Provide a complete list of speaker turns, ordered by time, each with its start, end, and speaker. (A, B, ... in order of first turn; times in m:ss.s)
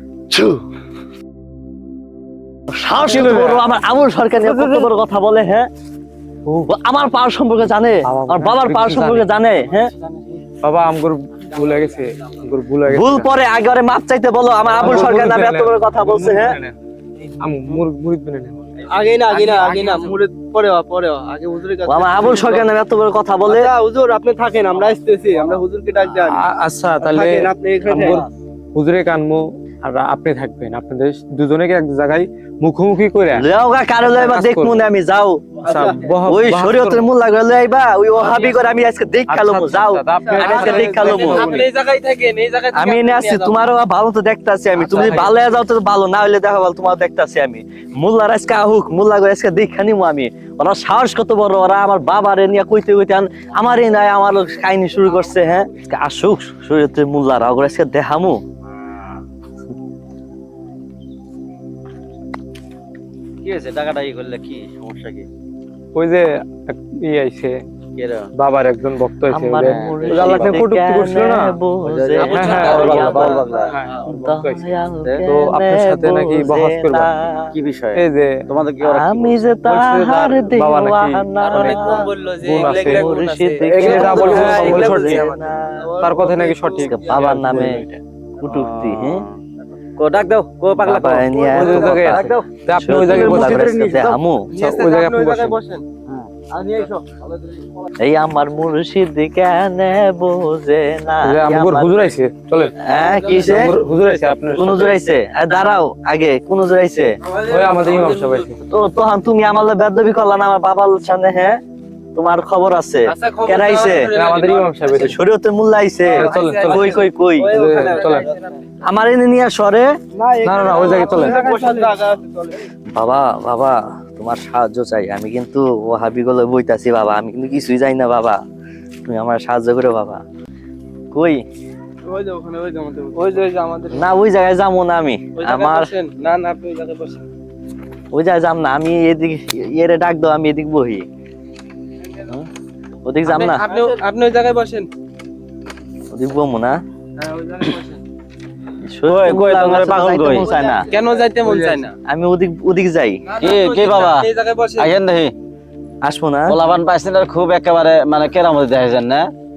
0:00.3-0:00.6 A
0:02.7-0:05.7 A
0:03.0-0:03.6 B
0:04.4-0:04.9 B
0:06.7-0:09.9 A
0:08.0-0:09.3 B
0:10.6-0:13.3 B
0:12.9-0:16.6 A
0:14.7-0:16.7 B
0:17.4-0:18.6 B
0:18.9-0:22.6 C
0:19.2-0:20.2 D
0:21.8-0:23.7 A
0:23.5-0:26.4 C
0:26.2-0:33.4 B
0:27.0-0:28.2 C
0:33.4-0:35.6 A
0:34.0-0:34.8 B
0:35.6-0:37.0 B
0:35.6-0:36.0 C
0:36.2-0:41.5 A
0:39.3-0:41.4 B
0:40.2-0:41.6 C
0:40.4-0:43.6 D
0:42.7-0:58.4 A
0:44.8-0:45.3 B
1:03.4-1:05.3 E
1:05.9-1:07.6 B
1:08.0-1:08.3 E
1:08.4-1:11.6 B
1:09.3-1:13.5 A
1:09.6-1:10.6 E
1:11.8-1:13.8 E
1:12.2-1:13.6 D
1:12.2-1:14.6 B
1:14.0-1:17.5 A
1:15.2-1:17.1 B
1:17.5-1:19.5 E
1:17.9-1:18.4 B
1:18.8-1:22.1 A
1:19.6-1:25.3 B
1:21.4-1:25.3 D
1:22.6-1:25.9 A
1:25.9-1:26.9 C
1:26.0-1:27.8 B
1:26.8-1:29.2 A
1:28.4-1:29.4 E
1:30.0-1:32.5 E
1:30.8-1:34.5 A
1:31.5-1:35.6 B
1:34.5-1:35.8 D
1:36.5-1:37.0 C
1:38.0-1:42.1 A
1:41.2-1:45.0 B
1:42.8-1:43.7 A
1:43.0-1:43.6 D
1:44.6-1:47.2 A
1:47.4-1:48.6 B
1:47.5-1:48.2 D
1:48.7-1:51.6 A
1:52.1-1:54.1 A
1:53.1-1:54.9 D
1:54.1-1:55.2 B
1:54.9-1:57.6 A
1:56.0-1:58.3 B
1:56.1-1:58.4 D
1:57.5-1:58.2 C
1:58.8-1:59.9 A
2:00.1-2:02.6 C
2:00.4-2:01.4 B
2:01.0-2:01.9 D
2:03.0-2:08.4 A
2:09.0-2:10.2 A
2:11.1-2:11.4 A
2:12.0-2:13.9 C
2:13.3-2:13.6 D
2:13.9-2:15.9 A
2:15.4-2:17.2 D
2:18.1-2:21.0 A
2:23.0-2:23.6 A
2:23.3-2:24.9 D
2:26.1-2:26.8 A
2:27.3-2:27.9 C
2:28.8-2:30.9 A
2:29.0-2:30.5 E
2:30.4-2:31.8 C
2:30.6-2:31.9 D
2:32.1-2:33.2 A
2:33.2-2:34.9 D
2:33.4-2:35.3 E
2:36.0-2:36.6 A
2:36.5-2:39.3 E